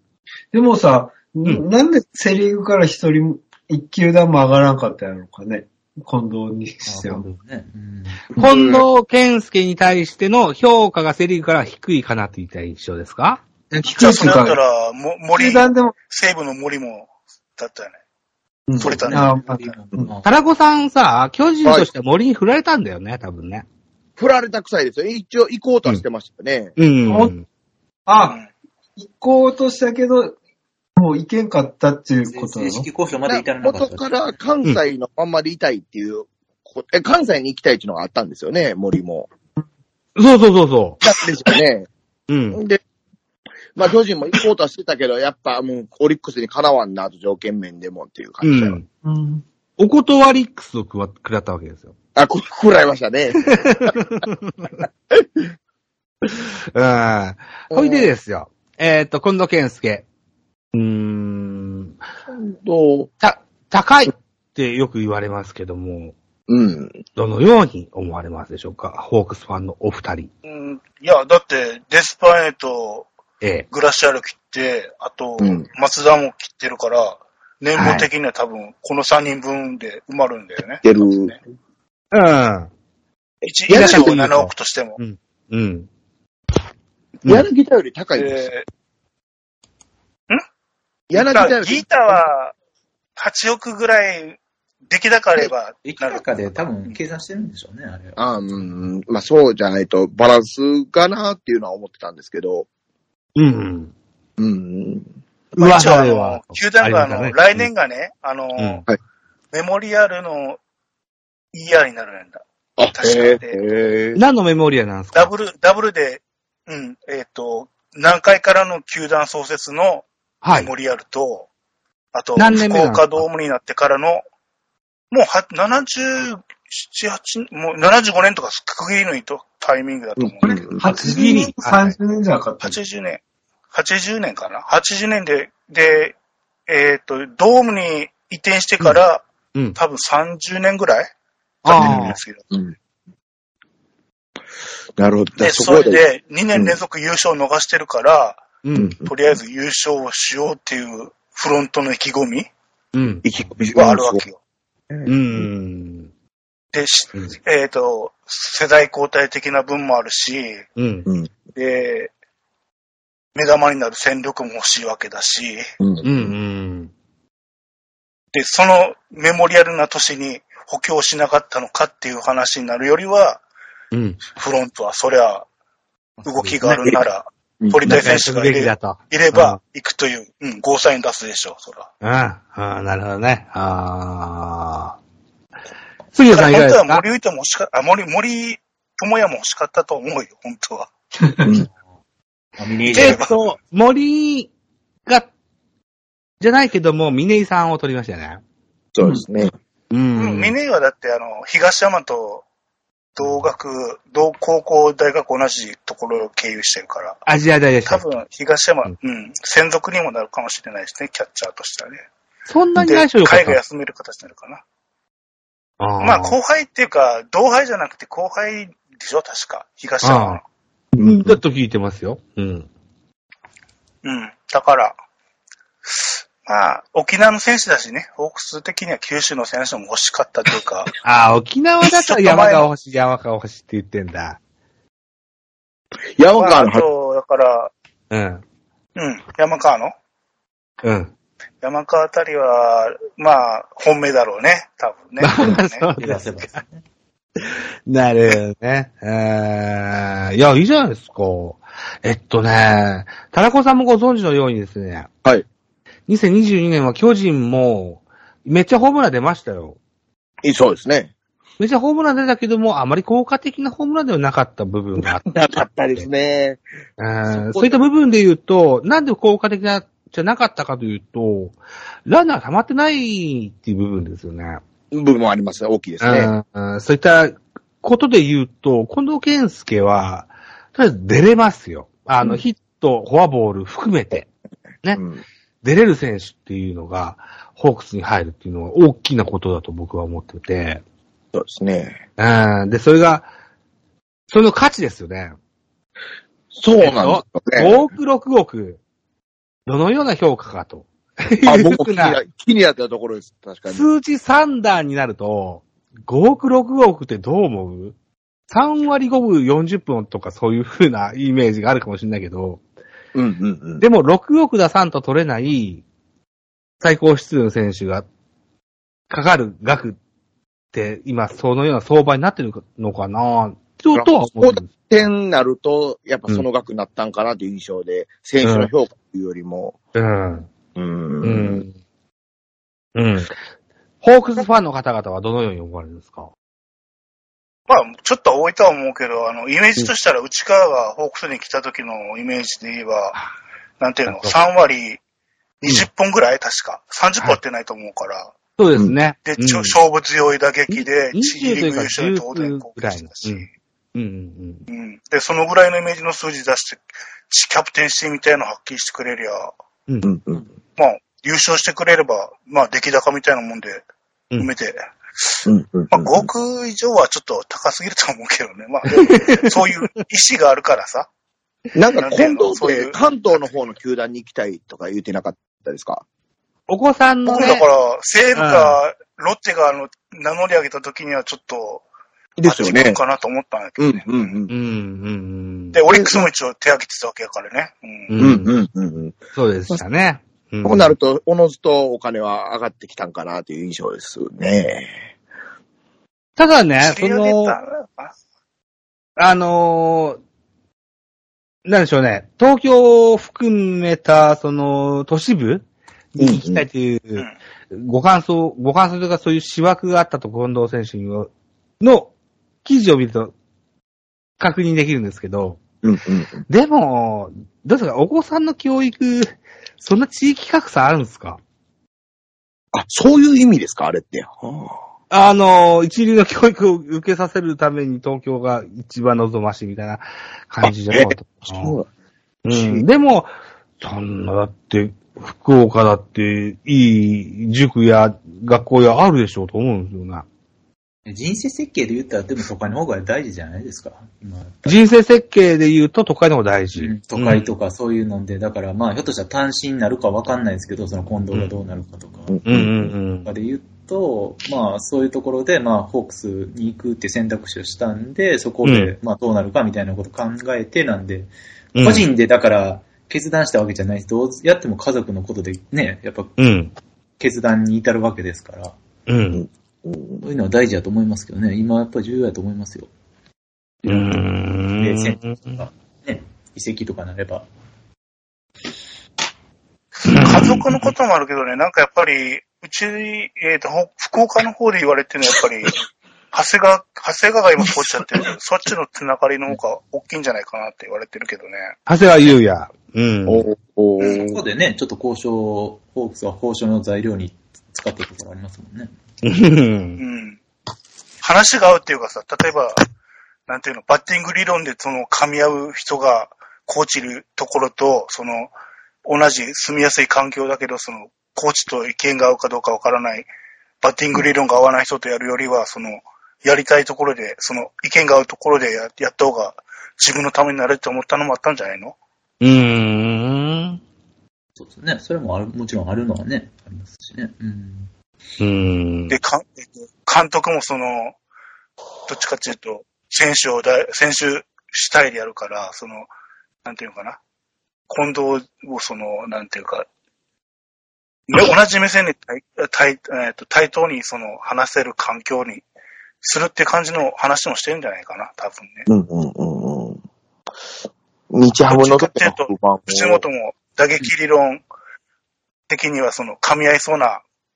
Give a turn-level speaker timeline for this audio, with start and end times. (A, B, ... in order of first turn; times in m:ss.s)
0:00.5-0:07.2 A
0:06.9-0:08.2 B
0:08.4-0:08.8 C
0:08.4-0:13.4 D
0:13.7-0:14.6 A
0:13.9-0:18.0 E
0:15.3-0:16.0 A
0:18.7-0:20.2 A
0:18.8-0:19.4 E
0:18.8-0:20.3 B
0:20.2-0:23.6 D
0:21.6-0:21.9 C
0:24.2-0:26.7 C
0:26.8-0:27.4 D
0:27.1-0:27.3 A
0:28.1-0:28.4 A
0:28.2-0:28.5 E
0:29.0-0:30.4 A
0:31.0-0:32.9 A
0:32.2-0:34.4 B
0:33.3-0:39.3 C
0:40.2-0:41.0 D
0:41.0-0:41.9 C
0:42.3-0:42.6 D
0:42.5-0:42.8 C
0:43.8-0:48.8 C
0:48.4-0:48.9 D
0:49.0-0:49.4 A
0:49.8-0:52.0 D
0:52.2-0:54.0 C
0:53.4-0:54.7 D
0:54.8-0:55.4 C
0:56.2-1:00.0 D
0:57.7-0:58.1 C
1:00.7-1:02.0 D
1:02.3-1:03.1 C
1:03.2-1:06.2 D
1:06.5-1:07.0 C
1:07.2-1:10.3 D
1:10.4-1:13.1 E
1:13.4-1:13.7 D
1:13.7-1:21.4 E
1:15.4-1:15.7 C
1:17.8-1:18.1 D
1:20.8-1:21.4 C
1:22.1-1:22.7 D
1:23.4-1:25.0 E
1:23.7-1:24.2 C
1:23.7-1:25.9 D
1:27.3-1:28.5 C
1:28.2-1:28.7 E
1:31.1-1:32.2 C
1:31.1-1:32.6 E
1:33.2-1:36.3 E
1:35.8-1:38.6 B
1:38.2-1:42.7 C
1:43.4-1:43.9 D
1:44.4-1:45.1 C
1:45.6-1:47.7 D
1:45.6-1:48.8 E
1:48.6-1:48.8 D
1:49.5-1:50.6 E
1:51.5-1:53.7 E
1:52.8-1:54.2 C
1:54.2-1:55.3 D
1:55.2-2:01.5 E
2:00.4-2:00.7 D
2:02.1-2:04.2 E
2:02.4-2:03.2 D
2:05.1-2:10.5 E
2:10.2-2:10.8 C
2:10.4-2:12.8 A
2:10.8-2:12.0 D
2:12.6-2:13.2 E
2:13.7-2:16.2 E
2:16.7-2:19.2 E
2:19.8-2:21.1 E
2:21.6-2:22.2 D
2:21.7-2:22.4 E
2:21.8-2:22.7 C
2:25.0-2:26.0 C
2:25.4-2:28.4 E
2:28.6-2:29.0 D
2:28.8-2:29.1 C
2:29.0-2:32.5 E
2:32.9-2:33.2 D
2:33.2-2:34.2 C
2:33.7-2:34.4 E
2:34.9-2:35.5 C
2:35.1-2:36.1 D
2:36.7-2:40.7 E
2:40.8-2:41.1 D
2:41.1-2:41.3 C
2:41.5-2:42.1 E
2:43.4-2:45.6 E
2:45.8-2:46.3 C
2:46.0-2:46.9 D
2:48.3-2:53.4 E
2:53.9-2:54.2 D
2:54.3-2:55.5 E
2:56.2-2:56.5 B
2:56.2-3:01.9 E
2:57.6-2:58.2 C
2:57.9-2:59.6 D
3:02.0-3:05.0 D
3:06.1-3:07.0 D
3:06.3-3:10.9 E
3:11.2-3:11.5 A
3:12.6-3:13.4 B
3:12.9-3:14.5 D
3:13.0-3:13.3 E
3:16.4-3:18.4 D
3:19.0-3:19.5 C
3:19.9-3:20.5 D
3:20.2-3:22.4 E
3:23.2-3:27.2 E
3:27.3-3:28.2 D
3:27.9-3:32.0 E
3:32.5-3:33.6 D
3:32.8-3:34.6 E
3:35.8-3:36.4 D
3:36.0-3:40.4 E
3:40.0-3:40.4 D
3:40.9-3:41.4 C
3:41.0-3:42.7 D
3:44.0-3:45.0 E
3:45.9-3:50.9 E
3:51.0-3:54.4 D
3:51.8-3:52.7 E
3:56.2-3:56.9 C
3:56.3-3:57.7 E
3:58.1-3:58.4 D
3:59.0-3:59.9 E
4:00.8-4:01.1 D
4:01.6-4:05.9 E
4:05.2-4:06.6 D
4:06.0-4:06.8 B
4:07.4-4:15.1 D
4:16.1-4:19.8 D
4:20.4-4:21.1 C
4:21.6-4:25.3 D
4:25.0-4:26.6 C
4:27.0-4:34.6 D
4:27.3-4:27.8 C
4:34.9-4:36.3 C
4:36.0-4:44.3 D
4:45.0-4:45.2 C
4:45.6-4:50.8 D
4:51.3-4:52.0 C
4:52.2-4:53.3 D
4:54.3-4:55.4 D
4:56.5-4:57.9 C
4:56.8-4:58.8 D
4:59.7-5:02.2 D
5:01.4-5:03.9 C
5:03.7-5:08.0 D
5:08.5-5:12.6 D
5:13.1-5:13.8 C
5:13.8-5:15.8 D
5:16.8-5:18.1 D
5:19.1-5:20.0 D
5:20.7-5:24.7 D
5:23.9-5:29.8 C
5:28.4-5:28.7 D
5:30.0-5:30.5 D
5:30.8-5:31.6 C
5:31.2-5:31.8 D
5:33.0-5:33.4 D
5:34.0-5:36.3 D
5:37.7-5:43.2 E
5:43.8-5:45.0 E
5:44.1-5:44.4 D
5:45.6-5:48.3 E
5:48.6-5:49.8 D
5:49.2-5:53.5 E
5:50.7-5:54.7 D
5:54.7-5:59.5 E
6:00.0-6:00.5 C
6:00.8-6:03.8 E
6:04.4-6:11.1 E
6:05.5-6:06.3 C
6:08.9-6:09.6 D
6:11.8-6:16.0 C
6:12.0-6:13.6 E
6:16.7-6:17.7 D
6:17.3-6:21.8 E
6:18.4-6:18.8 D
6:22.4-6:23.0 C
6:22.4-6:24.4 E
6:23.8-6:24.5 C
6:24.5-6:25.8 D
6:25.7-6:28.1 E
6:25.9-6:26.2 C
6:28.1-6:28.5 D
6:28.2-6:29.2 C
6:29.4-6:30.9 D
6:30.6-6:35.1 C
6:36.4-6:37.6 D
6:36.8-6:38.1 E
6:39.2-6:40.2 D
6:41.7-6:52.1 D
6:46.2-6:46.7 C
6:52.6-6:53.3 D
6:54.4-6:55.6 D
6:55.8-6:56.4 C
6:56.5-7:01.4 D
7:02.7-7:04.8 C
7:05.1-7:11.8 D
7:10.6-7:11.9 C
7:12.4-7:20.3 D
7:12.5-7:12.9 C
7:21.1-7:24.8 B
7:24.7-7:27.5 D
7:26.8-7:32.4 B
7:32.3-7:32.9 C
7:32.5-7:33.3 D
7:33.2-7:46.4 B
7:38.6-7:38.9 D
7:41.8-7:42.1 D
7:46.4-7:46.7 D
7:47.2-7:48.8 B
7:49.1-7:49.4 D
7:49.3-7:50.2 C
7:50.2-7:52.9 B
7:53.9-7:55.6 D
7:54.8-7:57.5 B
8:00.1-8:00.9 D
8:00.2-8:11.8 E
8:11.9-8:13.5 D
8:13.3-8:14.4 C
8:14.0-8:14.3 E
8:14.0-8:18.9 B
8:19.2-8:20.0 D
8:20.0-8:20.4 E
8:21.2-8:22.9 E
8:23.5-8:28.5 E
8:29.0-8:33.3 E
8:33.8-8:42.0 E
8:42.4-8:43.8 D
8:44.6-8:47.9 B
8:48.4-8:49.2 D
8:49.1-8:51.2 E
8:52.1-8:56.1 E
8:56.6-8:57.2 E
8:57.9-8:59.9 E
9:01.3-9:05.6 E
9:06.2-9:08.9 E
9:08.9-9:10.0 C
9:11.3-9:13.2 C
9:11.7-9:14.6 E
9:15.7-9:17.2 E